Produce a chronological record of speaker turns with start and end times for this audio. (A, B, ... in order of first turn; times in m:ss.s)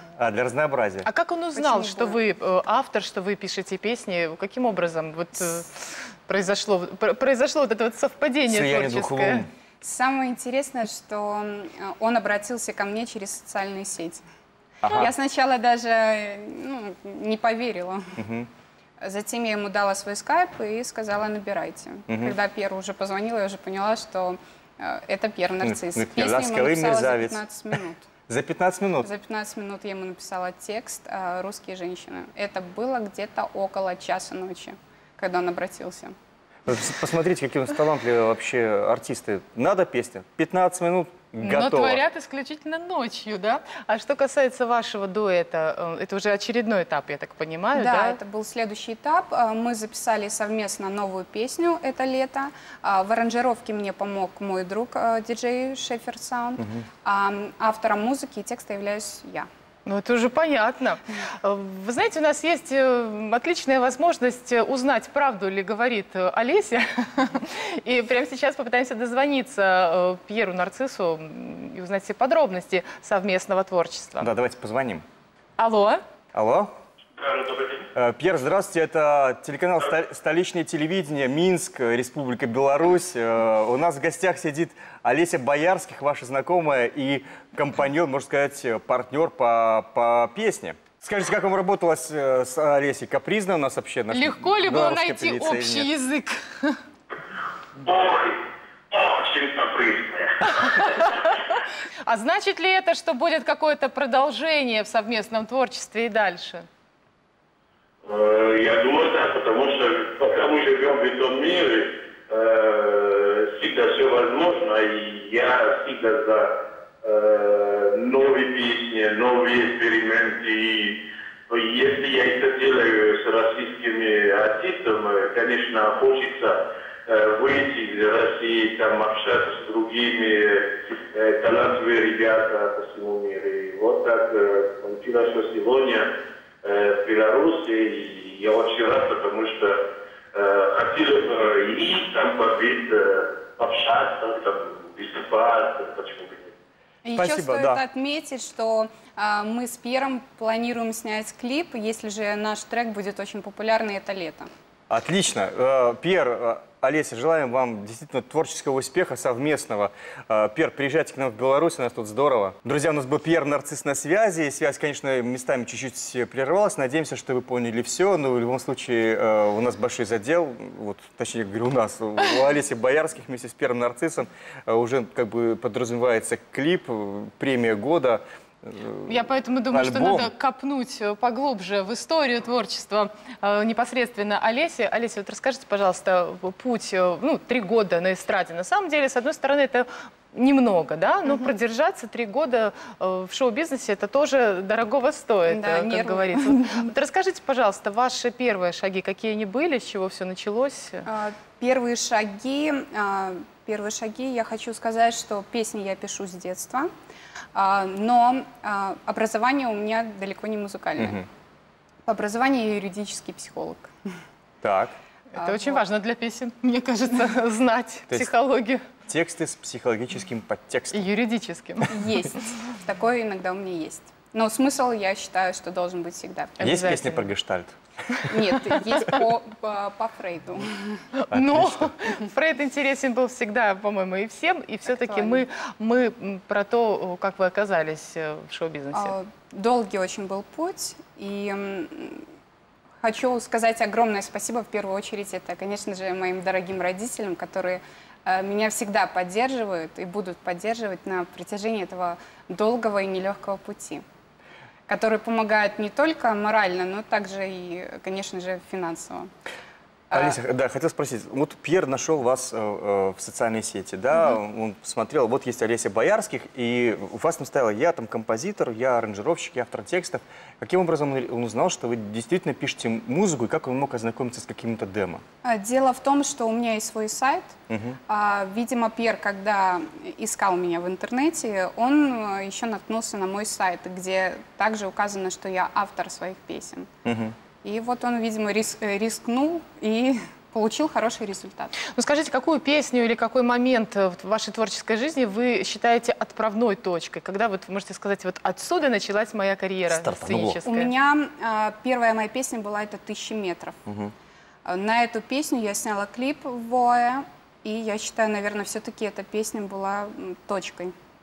0:00.2-0:01.1 A
0:01.0-0:09.4 B
0:01.5-0:02.2 C
0:08.5-0:09.5 A
0:09.8-0:14.2 C
0:14.8-0:15.1 A
0:14.8-0:18.1 C
0:18.2-0:18.5 A
0:19.0-0:28.1 C
0:22.1-0:22.3 A
0:25.6-0:27.4 A
0:28.3-0:29.1 A
0:29.0-0:36.1 C
0:36.6-0:42.0 A
0:41.4-0:48.2 B
0:47.7-0:59.5 C
0:59.8-1:14.3 B
1:14.2-1:15.0 A
1:15.6-1:16.0 B
1:16.3-1:16.7 A
1:17.2-1:17.8 D
1:17.9-1:35.9 A
1:34.1-1:36.8 B
1:37.8-1:40.8 D
1:40.4-1:46.7 B
1:48.0-2:16.1 D
2:16.6-2:19.8 D
2:20.3-2:26.5 D
2:27.0-2:34.5 C
2:27.1-2:27.8 A
2:34.9-3:00.3 A
2:59.0-3:21.0 B
3:15.4-3:16.9 C
3:21.0-3:26.9 C
3:27.5-3:31.2 C
3:31.0-3:31.2 A
3:32.0-3:33.9 C
3:34.6-3:35.0 A
3:35.3-3:38.8 B
3:35.4-3:35.8 C
3:39.1-3:41.1 A
3:40.9-3:42.3 B
3:41.9-3:46.6 C
3:46.6-3:47.3 B
3:46.6-3:47.8 A
3:48.3-3:51.0 C
3:51.1-3:59.1 B
3:51.3-3:51.9 A
3:54.9-3:55.4 C
3:58.9-4:02.2 C
4:03.0-4:14.0 C
4:14.9-4:19.3 C
4:20.1-4:20.4 C
4:20.1-4:35.2 A
4:35.4-4:37.5 C
4:37.7-4:38.0 A
4:38.1-4:46.9 C
4:47.0-4:47.4 A
4:47.6-4:51.8 C
4:51.8-5:00.9 B
4:59.9-5:00.6 A
5:00.6-5:03.8 C
5:03.9-5:04.1 A
5:04.6-5:10.9 C